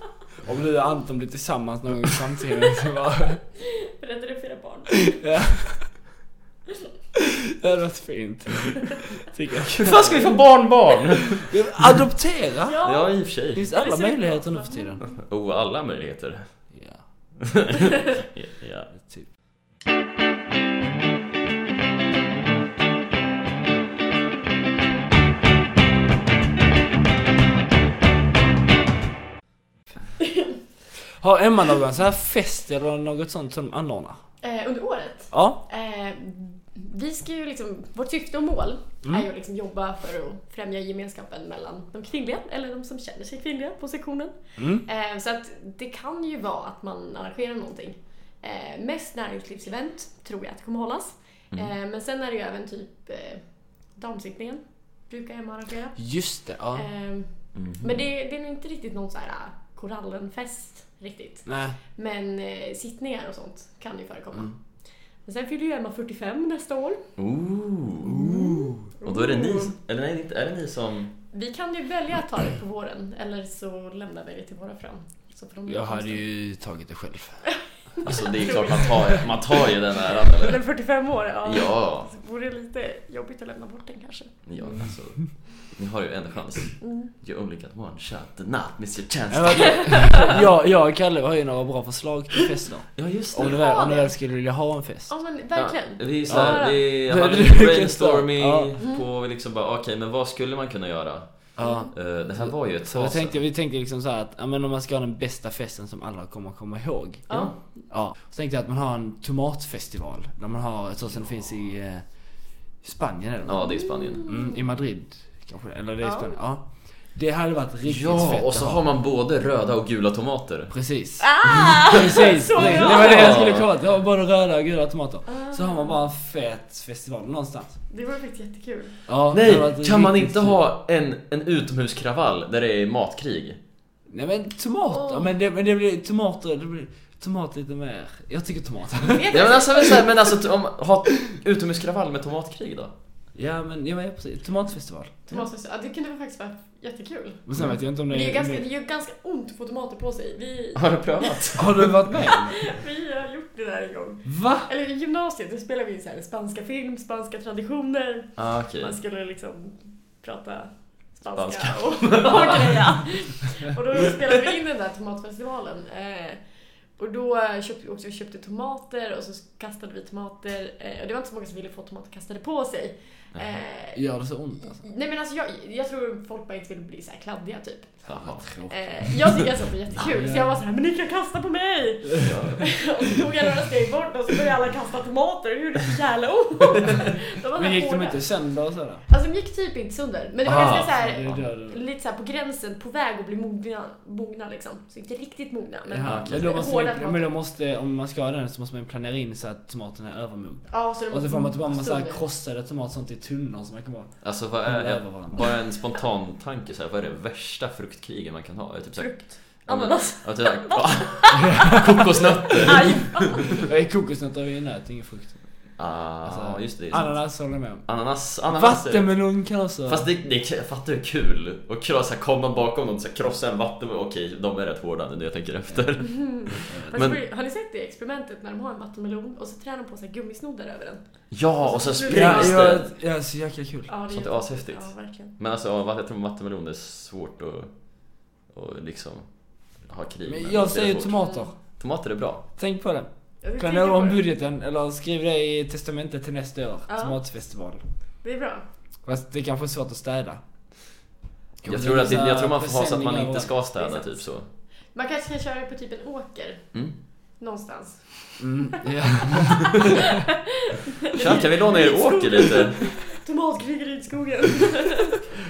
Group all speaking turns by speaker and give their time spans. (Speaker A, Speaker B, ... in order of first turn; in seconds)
Speaker A: 0.4-3.4, 5.0-5.9, 7.5-10.3, 11.4-12.8, 13.5-15.0, 16.7-17.0, 18.9-19.3, 31.2-34.2, 35.3-35.6, 44.6-44.9, 56.0-56.9, 61.5-61.8, 68.1-68.7, 75.7-77.4, 89.3-95.1, 96.3-98.7, 101.6-107.4, 107.9-113.7, 114.3-118.8, 120.7-127.8, 129.1-130.6, 134.1-139.3, 143.3-145.4, 147.5-148.7, 151.6-152.7, 154.3-154.7, 173.9-174.8, 178.2-178.9, 180.0-180.6, 187.6-189.0, 190.4-191.8, 195.9-205.5, 213.5-215.4, 216.2-217.9, 218.5-220.1, 226.7-227.0, 232.1-233.9, 240.3-241.5, 242.6-247.8, 249.1-250.4, 251.6-253.5, 258.4-259.9
Speaker B: 3.6-5.2, 12.7-15.1, 34.4-64.6, 65.2-67.1, 68.2-69.7, 71.3-76.2, 78.0-79.2, 80.4-84.7, 86.8-87.1, 89.7-90.3, 93.4-94.2, 95.1-96.8, 101.6-101.9, 107.3-107.7, 113.7-114.6, 116.0-116.3, 121.2-123.6, 125.3-126.0, 127.9-129.0, 134.9-135.3, 139.1-140.2, 145.3-147.5, 148.1-166.4, 167.0-174.0, 174.7-188.3, 189.1-197.4, 200.7-202.2, 209.0-211.6, 212.6-213.6, 226.1-232.9, 233.9-235.3, 243.4-244.2, 246.9-247.2, 248.2-248.6, 253.8-254.2, 254.9-256.8, 257.4-258.7, 259.3-260.0, 260.8-265.3
Speaker C: 9.8-11.8, 12.8-13.7, 15.1-16.5, 17.4-18.9, 57.5-58.0, 67.2-71.1, 78.0-80.6, 81.5-82.1, 84.5-90.5, 93.0-93.6, 95.5-103.4, 107.3-107.5, 113.5-114.2, 117.9-120.7, 122.6-123.7, 129.3-133.6, 139.3-142.9, 150.8-152.3, 158.4-159.0, 161.3-163.0, 178.1-178.5, 182.2-182.7, 190.5-191.4, 196.0-196.7, 204.2-213.3, 215.8-219.3, 219.8-227.2, 231.3-232.9, 234.1-242.4, 251.7-254.5, 261.1-262.9